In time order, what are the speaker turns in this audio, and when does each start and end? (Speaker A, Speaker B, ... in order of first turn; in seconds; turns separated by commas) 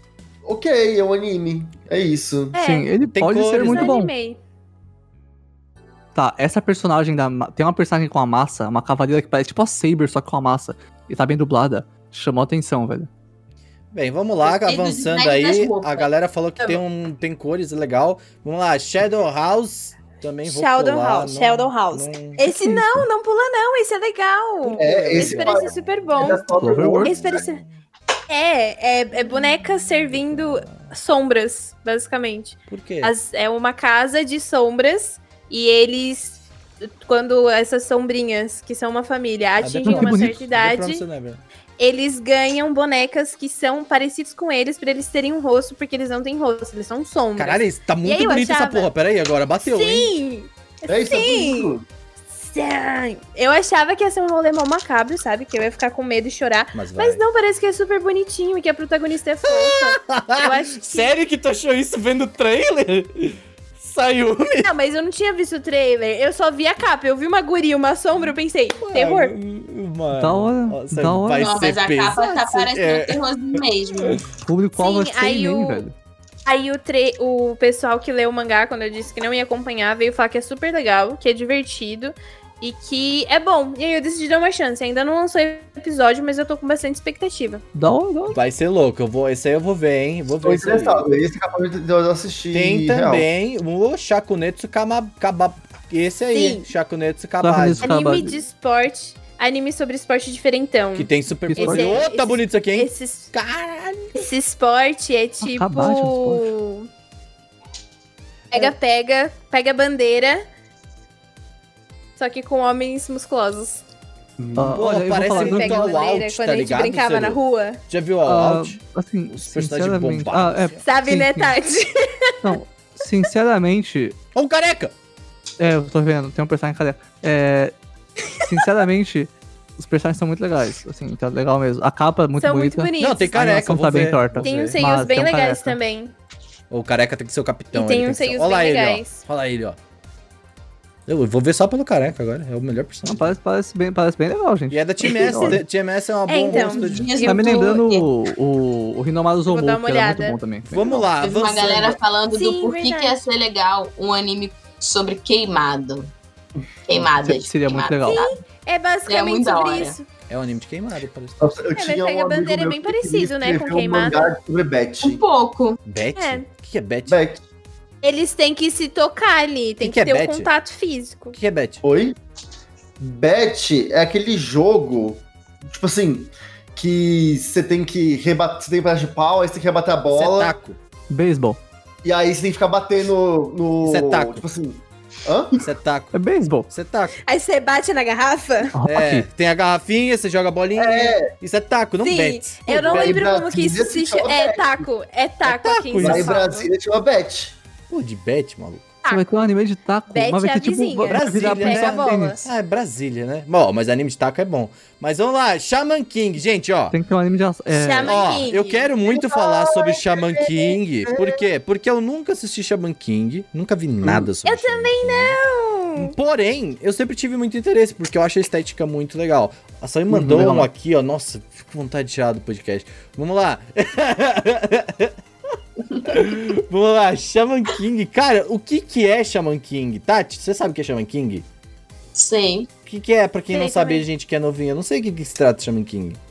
Speaker A: 0.4-2.5, Speaker B: 2.5-2.9, Speaker C: 2.6-4.1, Speaker D: 3.0-3.9, Speaker B: 3.6-4.4, Speaker C: 6.1-13.1, Speaker D: 13.9-22.4, Speaker E: 14.4-16.1, Speaker B: 20.4-27.6, Speaker C: 22.4-23.1, Speaker D: 24.6-26.0, Speaker A: 24.7-27.2, Speaker C: 26.6-27.1, Speaker D: 27.1-27.7, Speaker B: 28.3-41.0, Speaker D: 30.4-30.9, Speaker D: 32.7-33.1, Speaker D: 39.6-41.4, Speaker C: 39.9-40.4, Speaker B: 41.8-48.9, Speaker D: 47.4-50.1, Speaker B: 49.6-51.7, Speaker A: 50.9-51.9, Speaker B: 52.3-61.1, Speaker D: 56.7-57.2, Speaker D: 59.5-64.7, Speaker B: 64.6-69.3, Speaker D: 68.2-73.2, Speaker C: 70.1-71.6, Speaker E: 71.3-74.2, Speaker C: 74.4-75.9, Speaker B: 74.8-75.8, Speaker B: 76.5-87.6, Speaker C: 87.7-88.4, Speaker D: 88.3-91.0, Speaker A: 90.4-93.3, Speaker D: 92.5-98.0, Speaker B: 96.3-96.7, Speaker C: 97.4-98.4, Speaker B: 97.8-103.3, Speaker D: 100.9-104.2, Speaker C: 101.5-102.0, Speaker B: 104.1-106.9, Speaker C: 105.4-106.5, Speaker B: 108.5-110.4, Speaker B: 112.2-113.8, Speaker A: 114.4-114.8, Speaker C: 114.6-115.9, Speaker D: 114.7-118.8, Speaker B: 115.2-117.8, Speaker C: 118.2-121.5, Speaker D: 119.3-120.8, Speaker B: 120.8-122.6, Speaker C: 122.4-124.2, Speaker D: 124.3-124.9, Speaker C: 125.6-127.7, Speaker C: 128.4-135.8, Speaker B: 132.4-133.6, Speaker D: 133.0-134.8, Speaker B: 134.4-136.1, Speaker D: 136.7-139.8, Speaker B: 137.7-139.2, Speaker D: 141.1-143.3, Speaker C: 143.0-145.6, Speaker D: 144.7-147.1, Speaker B: 146.3-147.8, Speaker E: 146.5-148.1, Speaker C: 147.2-151.1, Speaker B: 149.5-150.4, Speaker D: 150.7-152.0, Speaker E: 151.2-156.1, Speaker B: 152.3-153.2, Speaker E: 156.9-158.4, Speaker C: 157.1-158.2, Speaker B: 158.1-160.0, Speaker E: 159.1-160.0, Speaker D: 160.3-161.7, Speaker A: 161.4-165.2, Speaker B: 161.7-164.3, Speaker E: 165.0-165.8, Speaker D: 165.8-167.2, Speaker B: 166.2-166.4, Speaker A: 167.1-167.4, Speaker B: 168.0-171.4, Speaker D: 169.8-170.5, Speaker D: 171.3-171.8, Speaker A: 171.8-172.2, Speaker A: 173.0-180.6, Speaker D: 180.1-180.8, Speaker C: 181.1-181.6, Speaker A: 182.0-185.6, Speaker D: 183.8-184.4, Speaker D: 185.6-187.2, Speaker C: 186.1-186.7, Speaker B: 187.2-188.7, Speaker C: 188.7-189.3, Speaker D: 188.8-193.2, Speaker A: 190.7-191.3, Speaker B: 192.0-196.7, Speaker A: 192.7-194.9, Speaker D: 195.4-196.2, Speaker A: 196.0-197.6, Speaker C: 196.0-196.3, Speaker D: 197.9-198.9, Speaker C: 199.1-202.4, Speaker B: 200.1-202.4, Speaker D: 201.1-206.9, Speaker C: 206.9-208.2, Speaker B: 207.7-208.9, Speaker D: 208.0-215.4, Speaker A: 209.1-211.4, Speaker A: 214.0-214.3, Speaker B: 214.4-216.1, Speaker D: 216.0-225.1, Speaker C: 220.1-220.7, Speaker A: 220.1-220.5, Speaker D: 226.0-231.4, Speaker E: 232.1-232.7, Speaker D: 232.8-236.2, Speaker B: 233.5-234.0